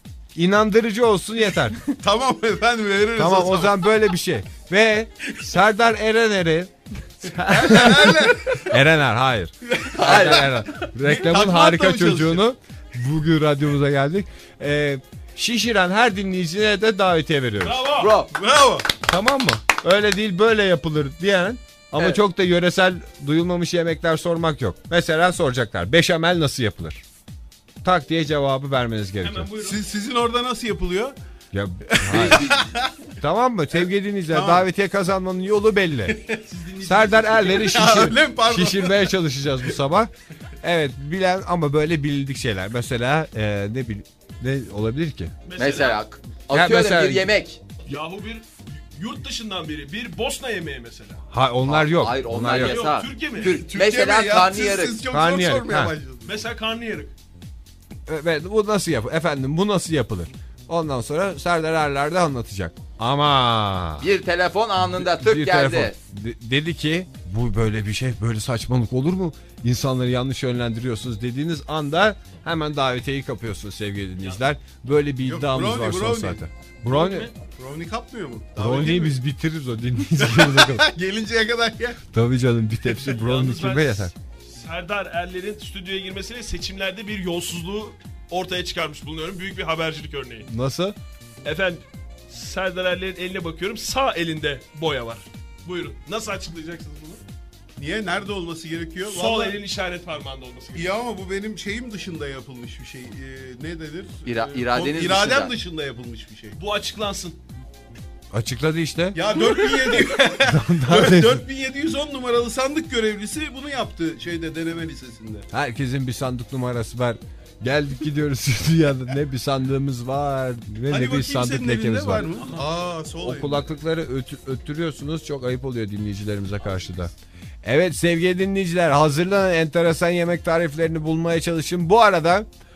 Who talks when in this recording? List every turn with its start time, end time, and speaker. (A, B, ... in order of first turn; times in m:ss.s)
0:00.3-0:01.8 A
0:01.9-0:03.8 B
0:03.2-0:17.8 A
0:07.4-0:08.6 B
0:09.7-0:10.4 B
0:09.9-0:10.5 C
0:11.0-0:12.4 B
0:17.6-0:18.1 D
0:18.0-0:18.3 C
0:18.3-0:18.9 B
0:19.0-0:27.0 A
0:27.8-0:29.5 A
0:29.2-0:29.8 D
0:29.6-0:31.2 B
0:31.5-0:32.5 A
0:32.0-0:32.9 B
0:32.1-0:32.7 C
0:33.2-0:36.2 A
0:34.3-0:34.6 B
0:36.1-0:39.1 B
0:36.8-0:40.1 A
0:40.6-0:45.3 A
0:45.4-0:46.0 D
0:45.6-0:47.6 C
0:46.5-0:47.3 A
0:47.9-0:51.2 D
0:51.3-0:52.8 A
0:51.6-0:55.0 C
0:52.4-0:53.6 D
0:53.4-0:56.3 B
0:55.1-0:55.9 A
0:56.2-0:57.1 D
0:58.1-1:04.1 A
1:04.0-1:06.0 C
1:04.8-1:17.3 A
1:14.2-1:14.4 D
1:15.2-1:16.4 B
1:16.9-1:17.3 D
1:17.4-1:19.2 B
1:18.6-1:20.9 A
1:20.2-1:22.0 B
1:22.0-1:24.1 A
1:23.0-1:30.5 D
1:30.5-1:31.0 A
1:31.4-1:37.2 D
1:37.8-1:39.6 B
1:39.0-1:41.0 D
1:40.7-1:46.6 B
1:44.2-1:45.5 C
1:46.5-1:47.4 D
1:48.3-1:49.3 A
1:49.1-1:55.5 B
1:49.9-1:51.4 A
1:55.5-2:02.3 A
2:00.9-2:03.6 B
2:03.2-2:07.1 A
2:07.6-2:12.5 A